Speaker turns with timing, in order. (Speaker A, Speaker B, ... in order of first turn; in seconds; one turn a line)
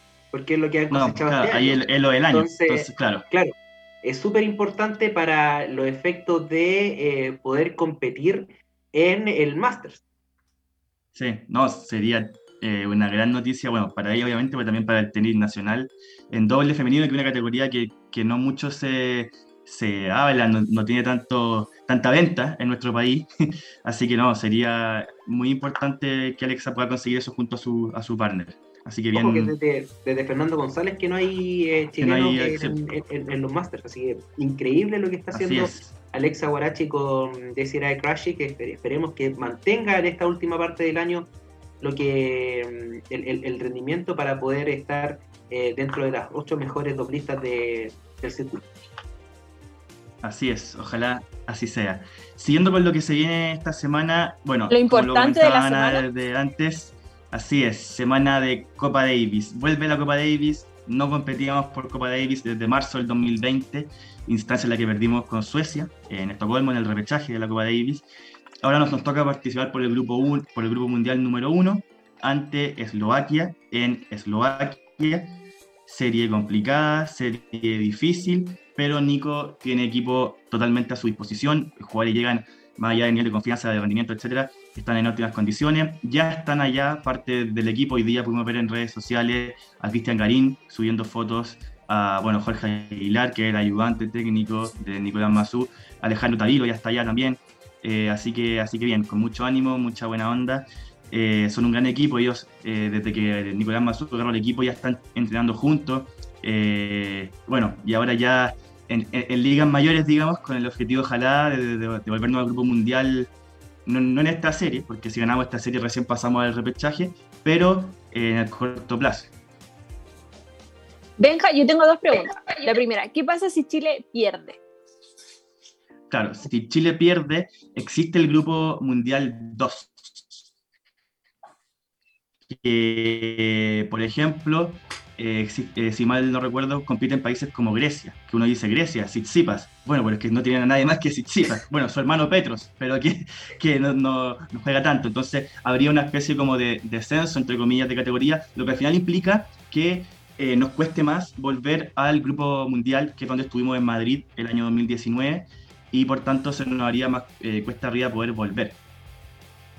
Speaker A: 0.3-10.0
Speaker B: 0.9-3.2
Speaker B: 11.2-23.3
Speaker B: 23.9-29.5
Speaker A: 29.1-41.3
Speaker B: 32.0-32.8
Speaker B: 35.3-35.9
Speaker A: 41.8-48.6
Speaker B: 50.2-68.1
Speaker C: 54.7-56.1
Speaker B: 68.6-75.3
Speaker B: 75.9-113.3
Speaker B: 113.9-119.3
Speaker C: 121.2-124.6
Speaker B: 126.1-130.4
Speaker B: 132.5-158.8